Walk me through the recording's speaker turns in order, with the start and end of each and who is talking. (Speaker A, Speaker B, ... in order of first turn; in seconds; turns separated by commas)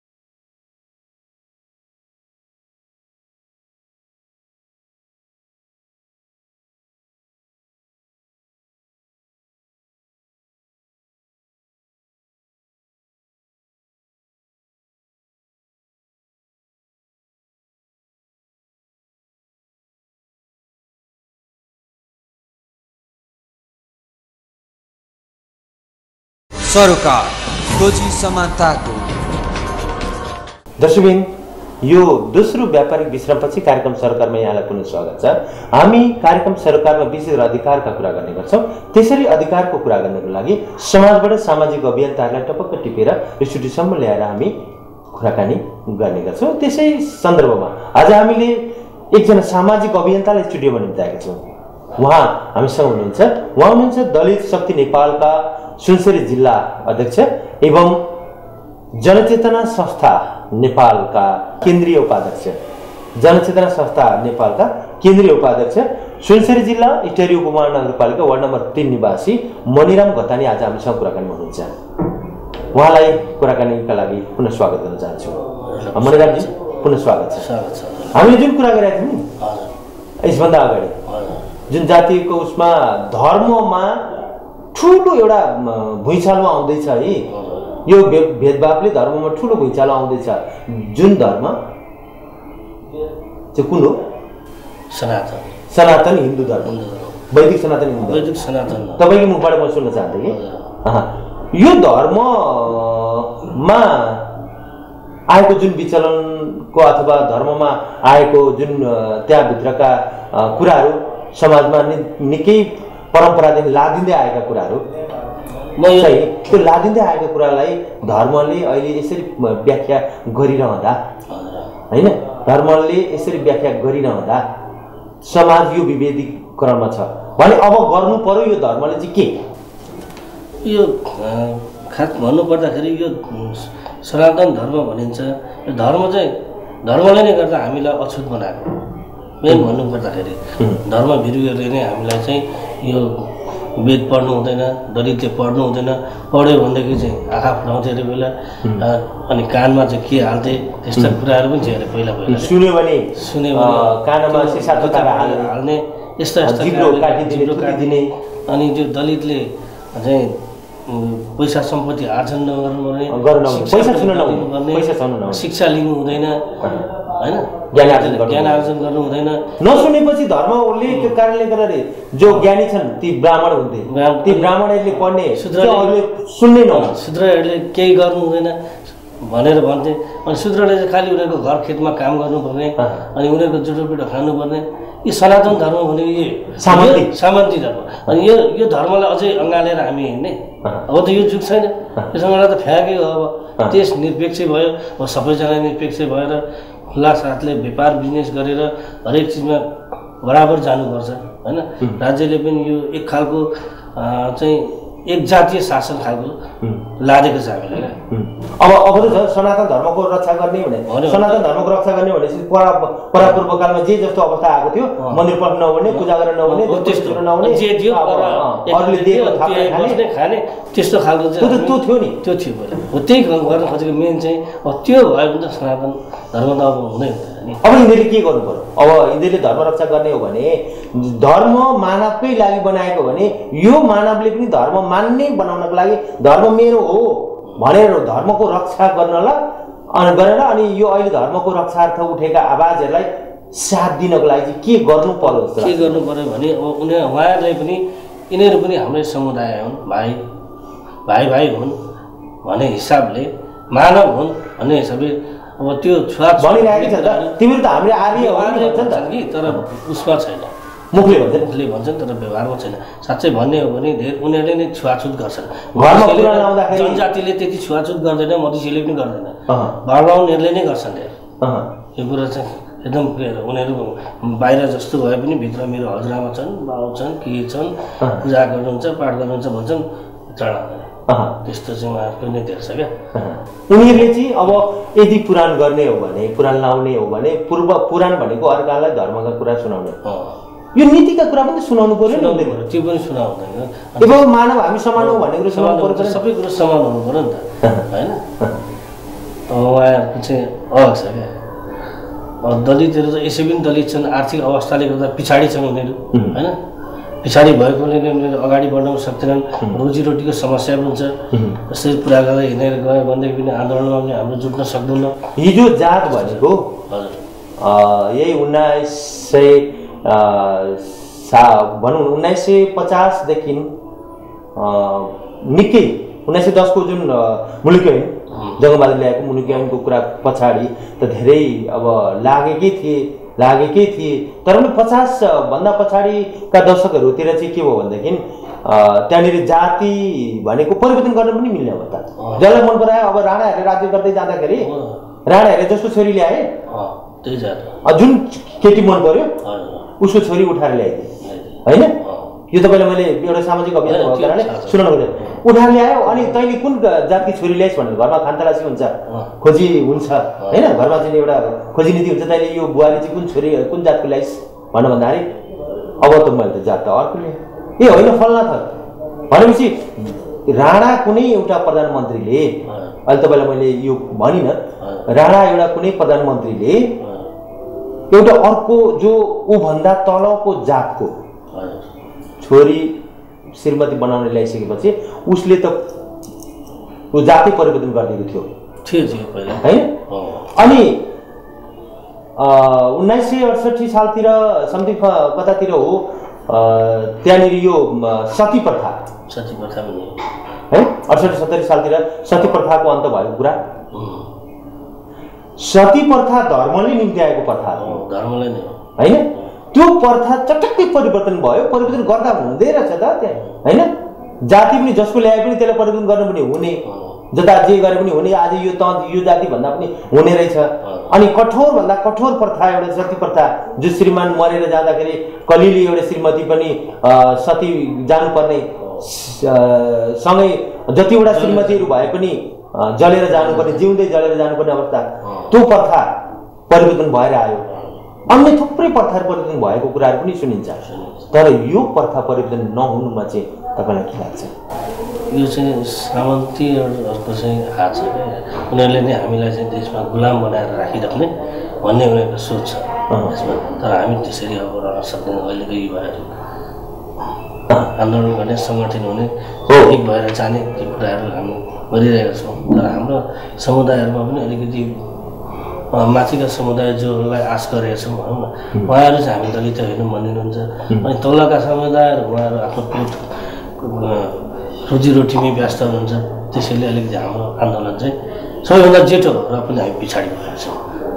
Speaker A: 26.6-29.2, Speaker B: 30.8-31.3, Speaker B: 31.8-44.5, Speaker B: 45.1-58.0, Speaker B: 59.0-62.6, Speaker B: 63.2-71.7, Speaker B: 72.7-77.5, Speaker C: 75.6-76.5, Speaker C: 77.3-78.4, Speaker B: 78.1-79.3, Speaker C: 79.4-79.7, Speaker B: 80.2-81.0, Speaker C: 81.1-81.5, Speaker B: 81.7-84.1, Speaker B: 84.7-87.2, Speaker C: 87.3-87.8, Speaker B: 87.9-91.6, Speaker B: 93.5-94.0, Speaker C: 94.9-95.5, Speaker B: 95.7-96.8, Speaker C: 96.6-97.3, Speaker B: 97.3-98.4, Speaker C: 98.0-99.1, Speaker B: 99.0-104.3, Speaker C: 100.3-100.7, Speaker B: 105.3-114.8, Speaker C: 115.8-116.6, Speaker B: 115.9-121.0, Speaker C: 121.3-121.7, Speaker B: 121.9-124.4, Speaker B: 125.2-129.4, Speaker C: 130.6-138.8, Speaker C: 139.4-152.5, Speaker B: 152.3-155.5, Speaker C: 153.1-169.6, Speaker B: 156.4-158.1, Speaker B: 163.1-165.4, Speaker B: 167.7-168.7, Speaker B: 169.6-177.0, Speaker C: 170.9-171.2, Speaker C: 173.9-174.6, Speaker C: 175.3-176.0, Speaker C: 176.7-206.4, Speaker B: 182.8-183.1, Speaker B: 186.6-187.1, Speaker C: 207.0-208.0, Speaker B: 208.1-220.0, Speaker C: 210.9-211.5, Speaker C: 215.0-215.2, Speaker C: 215.9-227.6, Speaker B: 221.4-222.2, Speaker B: 227.6-239.4, Speaker B: 239.9-246.0, Speaker C: 245.2-250.2, Speaker C: 251.1-251.8, Speaker C: 252.4-257.4, Speaker B: 256.4-259.6, Speaker C: 258.0-271.2, Speaker B: 260.9-261.5, Speaker B: 265.8-267.1, Speaker B: 269.5-269.8, Speaker B: 271.4-271.7, Speaker C: 272.0-282.9, Speaker B: 281.1-281.4, Speaker B: 283.1-290.0, Speaker C: 290.0-290.4, Speaker B: 290.8-292.6, Speaker C: 292.1-294.3, Speaker B: 294.0-296.2, Speaker C: 295.0-298.2, Speaker C: 299.5-301.3, Speaker C: 302.4-306.6, Speaker B: 306.1-306.4, Speaker C: 307.2-315.2, Speaker B: 311.3-311.6, Speaker B: 315.4-316.7, Speaker C: 316.1-317.2, Speaker B: 317.6-323.7, Speaker B: 324.6-344.7, Speaker C: 328.3-328.6, Speaker C: 342.2-342.6, Speaker C: 344.6-345.0, Speaker B: 345.3-346.5, Speaker C: 346.7-347.8, Speaker B: 347.9-349.4, Speaker C: 349.4-349.9, Speaker B: 350.0-351.1, Speaker C: 351.2-352.3, Speaker B: 351.6-351.9, Speaker B: 352.5-365.3, Speaker C: 353.9-355.4, Speaker C: 356.1-356.3, Speaker C: 359.1-359.3, Speaker C: 360.4-360.7, Speaker B: 366.0-368.7, Speaker B: 369.3-376.9, Speaker C: 372.7-373.0, Speaker C: 374.8-375.1, Speaker C: 377.0-377.3, Speaker B: 378.1-381.1, Speaker C: 381.5-381.9, Speaker B: 382.4-383.0, Speaker B: 383.5-385.8, Speaker B: 387.1-388.5, Speaker C: 388.9-390.6, Speaker B: 389.6-390.0, Speaker B: 390.5-391.1, Speaker B: 392.4-399.0, Speaker C: 399.3-400.2, Speaker B: 400.7-403.6, Speaker C: 403.9-404.3, Speaker B: 405.6-408.0, Speaker C: 407.8-409.5, Speaker B: 409.0-436.1, Speaker C: 416.8-417.2, Speaker C: 420.8-421.2, Speaker C: 428.8-429.1, Speaker C: 431.3-431.9, Speaker C: 433.4-433.8, Speaker C: 435.2-435.6, Speaker B: 436.7-437.7, Speaker C: 437.7-438.0, Speaker B: 438.3-440.8, Speaker C: 440.8-441.3, Speaker B: 441.3-444.5, Speaker C: 445.3-451.3, Speaker C: 451.8-456.3, Speaker B: 453.1-453.4, Speaker C: 457.8-465.0, Speaker B: 459.7-460.0, Speaker C: 465.9-480.8